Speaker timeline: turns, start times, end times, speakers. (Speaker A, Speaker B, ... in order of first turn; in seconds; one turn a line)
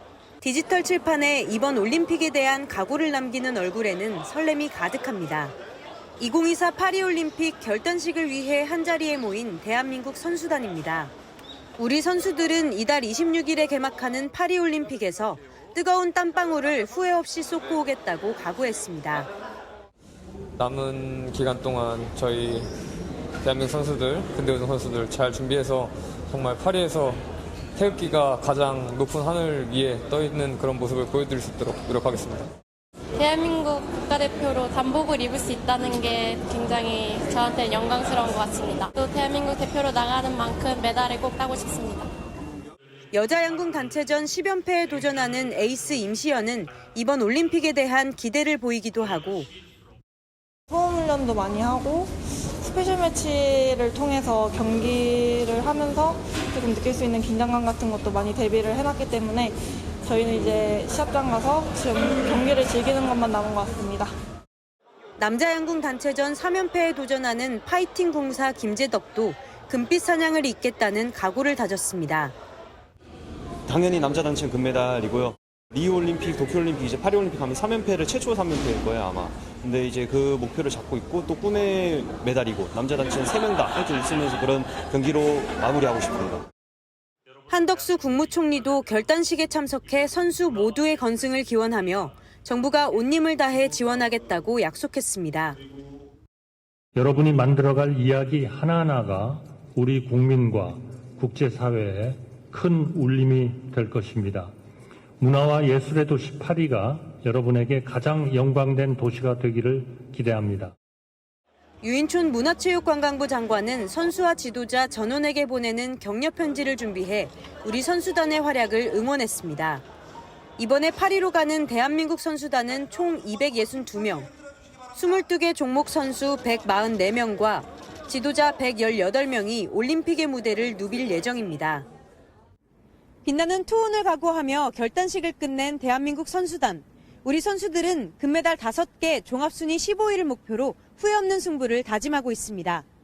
Speaker A: 0.4-5.5
Speaker A: 6.2-11.1
Speaker A: 11.8-19.3
Speaker B: 20.6-22.7
Speaker B: 23.4-27.2
Speaker B: 27.8-32.5
Speaker C: 33.2-42.1
Speaker A: 43.1-49.5
Speaker D: 50.7-64.1
Speaker A: 65.2-72.3
Speaker E: 73.7-86.5
Speaker A: 87.5-95.6
Speaker F: 97.0-104.5
Speaker F: 105.2-110.7
Speaker A: 111.8-119.8
Speaker A: 120.6-124.3
Speaker A: 125.0-131.9
Speaker A: 133.2-142.8